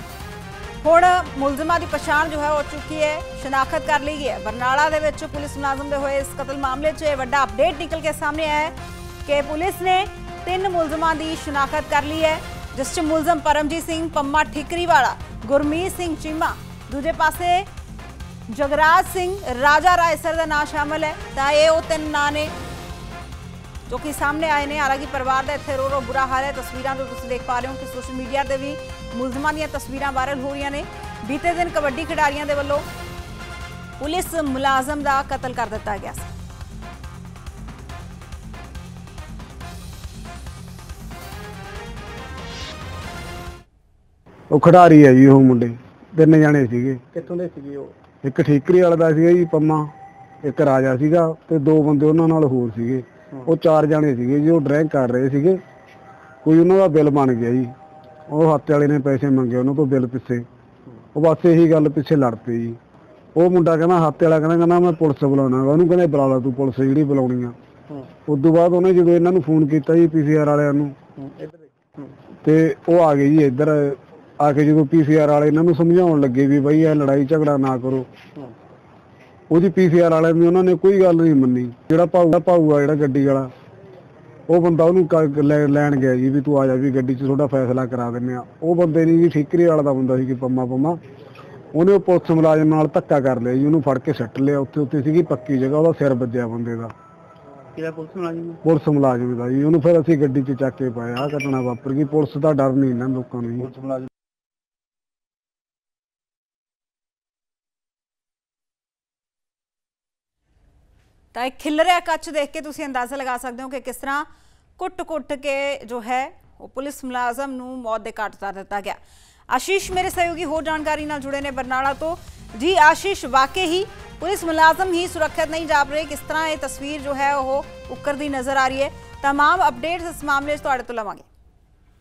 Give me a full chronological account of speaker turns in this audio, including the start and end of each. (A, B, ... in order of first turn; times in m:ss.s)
0:00.8-0:17.7 A
0:18.5-0:22.5 A
0:23.9-0:32.8 A
0:34.0-0:36.3 A
0:44.5-0:47.0 B
0:47.1-0:47.9 C
0:48.2-0:49.9 B
0:50.4-0:55.6 B
0:56.4-0:57.7 B
0:58.3-1:00.4 B
1:01.1-1:02.8 B
1:03.4-1:07.5 B
1:08.3-1:11.0 B
1:11.2-1:12.1 C
1:12.4-1:18.1 B
1:19.5-1:23.5 B
1:24.5-1:31.0 B
1:31.7-1:36.9 B
1:37.8-1:38.6 C
1:38.6-1:43.7 B
1:51.3-1:59.0 A
1:59.5-2:11.3 A